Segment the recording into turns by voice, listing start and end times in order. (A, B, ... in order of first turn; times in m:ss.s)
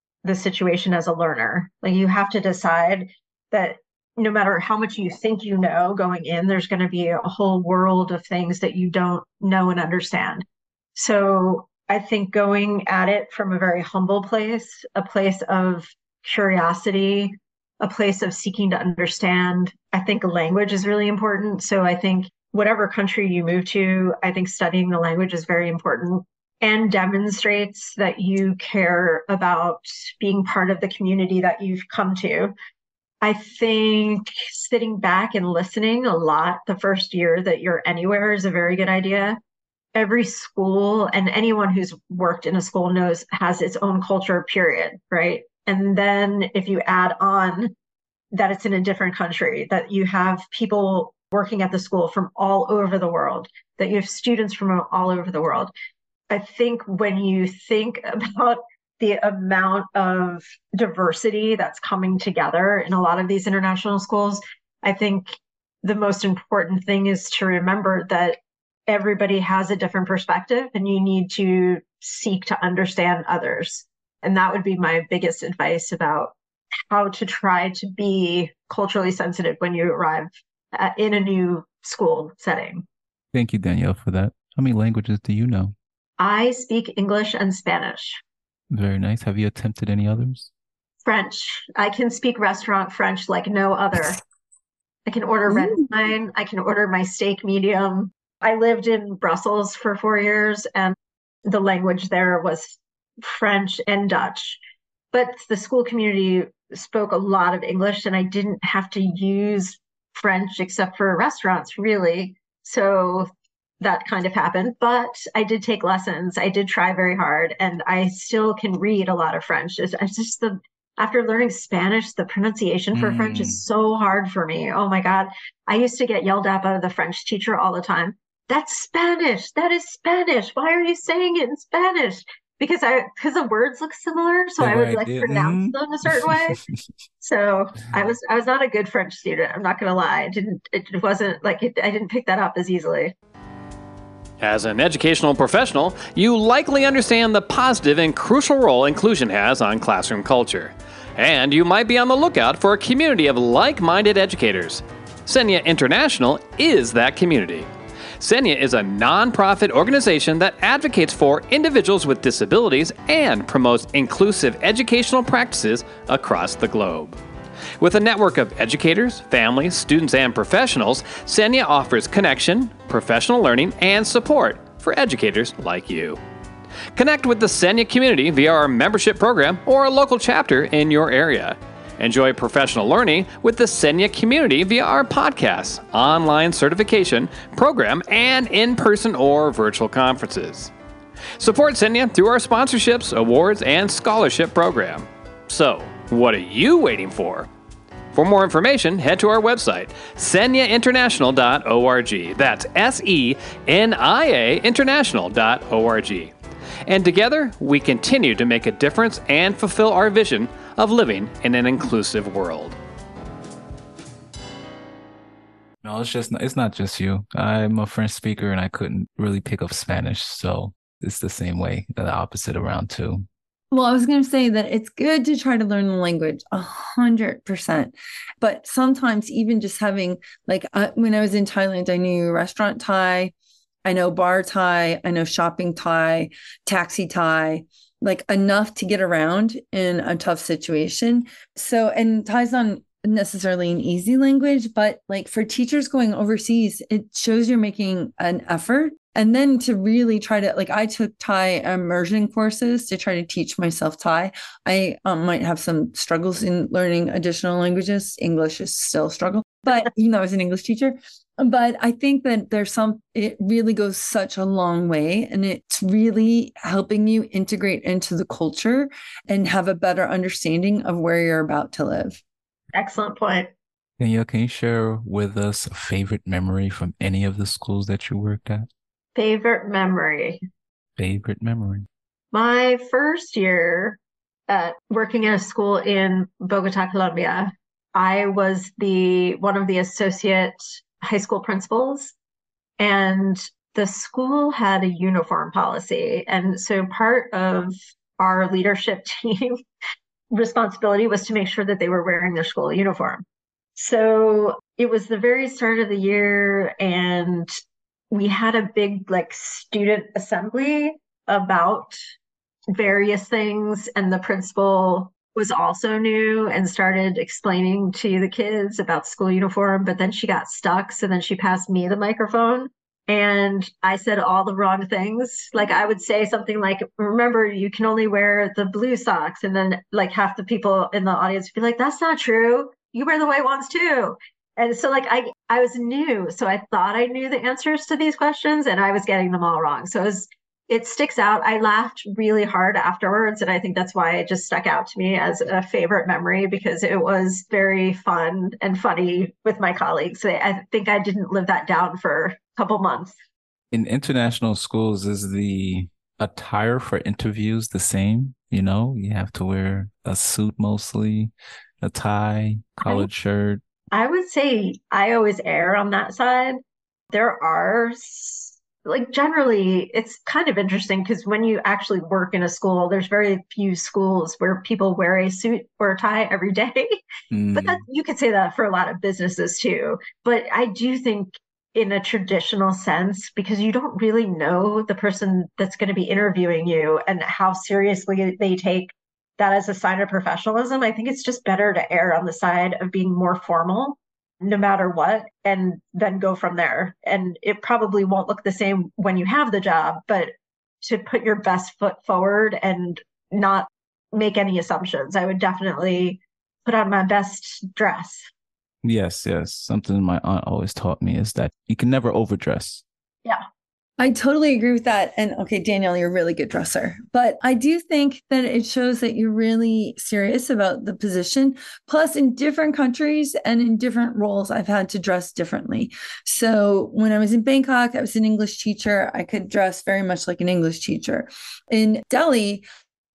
0:00.2-0:10.4 A
0:11.0-0:32.5 A
0:33.2-0:39.4 A
0:39.9-0:47.7 A
0:48.3-0:55.7 A
0:56.3-1:16.3 A
1:16.9-1:22.8 A
1:23.3-1:25.7 B
1:26.2-1:28.2 A
1:28.7-1:30.5 B
1:31.0-1:34.2 A
1:35.0-1:40.9 A
1:41.5-1:44.6 A
1:45.1-1:53.3 A
1:53.8-2:16.6 A
2:02.9-2:03.6 B
2:14.6-2:16.7 B
2:17.2-2:23.1 A
2:24.4-2:47.2 C
2:47.8-2:56.2 C
2:56.9-3:10.7 C
3:11.4-3:17.5 C
3:18.1-3:26.3 C
3:26.8-3:32.8 C
3:35.8-3:43.3 B
3:43.7-3:53.3 D
3:53.8-4:32.2 D
4:32.7-4:33.5 A
4:34.0-4:38.7 B
4:39.1-4:40.4 A
4:41.0-4:41.9 B
4:42.3-4:52.1 A
4:52.8-4:59.6 A
5:00.3-5:03.2 A
5:03.8-5:07.5 A
5:08.1-5:12.0 A
5:12.7-5:53.1 A
5:53.7-6:03.6 B
6:03.9-6:06.6 A
6:07.1-6:17.0 A
6:17.3-6:17.8 B
6:17.5-6:40.3 A
6:40.8-6:48.3 A
6:48.8-6:52.8 B
6:54.0-7:12.6 D